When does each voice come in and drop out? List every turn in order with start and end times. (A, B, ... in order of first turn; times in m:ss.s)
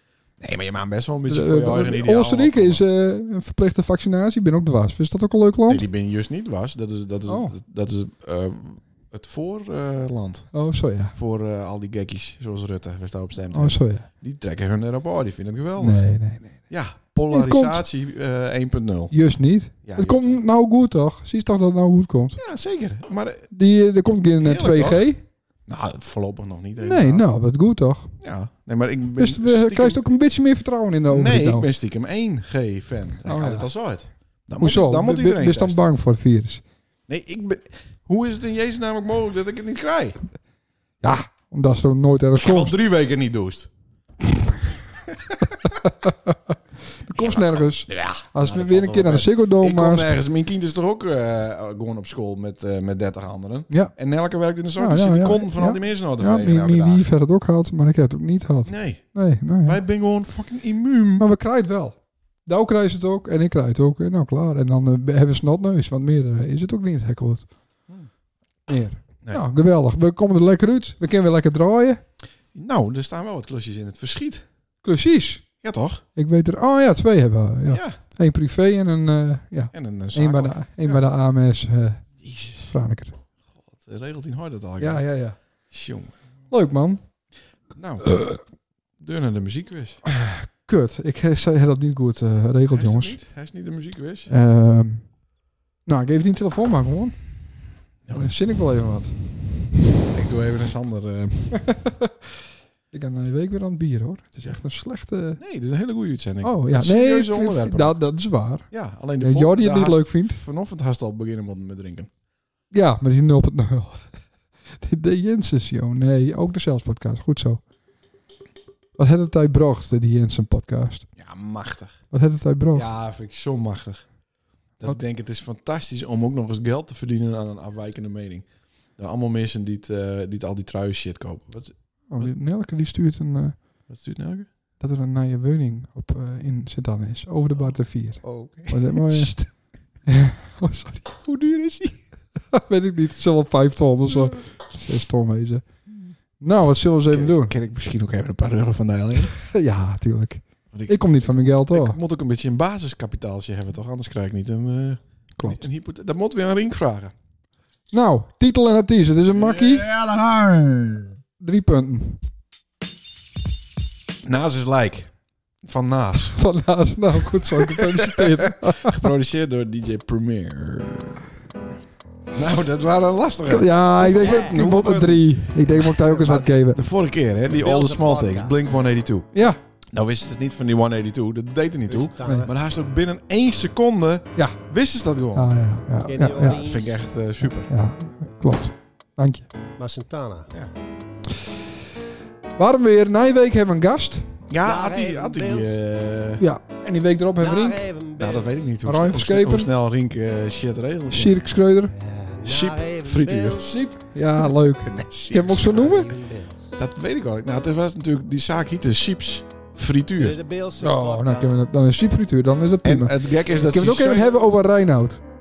0:00.4-0:02.8 A
0:01.3-0:05.9 B
0:05.7-0:16.1 A
0:07.3-0:07.6 B
0:10.5-0:11.2 B
0:13.5-0:14.1 B
0:15.8-0:16.7 B
0:16.7-0:19.2 A
0:17.3-0:17.8 B
0:19.1-0:22.4 B
0:19.8-0:20.4 A
0:22.4-0:23.5 A
0:23.5-0:25.2 B
0:24.4-0:25.1 A
0:25.7-0:27.3 A
0:26.8-0:28.1 B
0:28.2-0:30.0 A
0:29.2-0:31.7 B
0:31.1-0:35.8 A
0:33.2-0:33.7 B
0:34.6-0:36.6 B
0:37.1-0:40.2 A
0:41.0-0:42.8 B
0:42.4-0:43.7 A
0:45.1-0:45.9 A
0:45.8-0:50.2 B
0:47.1-0:57.1 A
0:54.8-0:59.8 B
0:58.6-1:01.3 A
1:01.2-1:07.5 B
1:08.7-1:12.0 B
1:12.5-1:14.4 A
1:14.8-1:15.5 B
1:15.6-1:16.0 A
1:16.2-1:23.2 B
1:17.7-1:18.0 A
1:19.7-1:21.0 A
1:22.2-1:22.8 A
1:23.7-1:26.2 A
1:24.8-1:25.4 B
1:26.5-1:27.1 B
1:27.7-1:28.4 A
1:28.1-1:28.4 B
1:29.0-1:30.0 A
1:30.1-1:33.2 B
1:32.7-1:34.3 A
1:34.3-1:35.2 B
1:35.8-1:39.7 B
1:38.0-1:38.4 A
1:40.1-1:41.8 A
1:41.7-1:42.1 B
1:42.9-1:45.4 B
1:45.4-1:48.0 A
1:46.4-1:50.4 B
1:48.7-1:52.1 A
1:52.7-1:54.2 B
1:54.7-1:57.6 B
1:59.0-2:01.1 B
2:01.2-2:02.0 A
2:02.1-2:02.9 B
2:02.7-2:04.1 A
2:04.8-2:12.3 A
2:12.1-2:13.7 B
2:13.9-2:14.5 A
2:14.8-2:21.2 B
2:17.5-2:19.5 A
2:21.2-2:22.0 A
2:22.5-2:25.7 B
2:25.9-2:26.1 A
2:26.4-2:27.5 B
2:27.1-2:29.4 A
2:29.3-2:32.0 B
2:30.7-2:37.1 A
2:35.4-2:35.6 B
2:37.9-2:39.9 B
2:39.3-2:41.2 A
2:41.4-2:42.2 B
2:44.2-2:45.1 A
2:45.6-2:46.4 A
2:46.3-2:49.1 B
2:47.3-2:51.2 A
2:52.3-2:59.3 A
2:53.5-2:56.8 B
2:54.1-2:54.5 C
2:57.5-2:58.7 C
2:59.3-2:59.6 B
2:59.9-3:05.6 A
3:01.9-3:02.5 C
3:05.3-3:06.6 B
3:06.0-3:07.0 C
3:06.5-3:07.7 A
3:07.4-3:09.5 B
3:09.8-3:10.5 C
3:12.6-3:14.4 B
3:14.5-3:16.4 A
3:14.6-3:15.7 C
3:16.4-3:17.8 B
3:17.4-3:18.6 C
3:18.2-3:21.4 A
3:18.8-3:19.7 B
3:21.1-3:21.9 B
3:21.9-3:23.7 C
3:22.4-3:23.7 A
3:23.6-3:26.1 B
3:24.7-3:26.0 A
3:25.5-3:26.7 C
3:26.8-3:30.4 A
3:30.2-3:31.8 C
3:30.8-3:35.2 B
3:32.8-3:34.3 A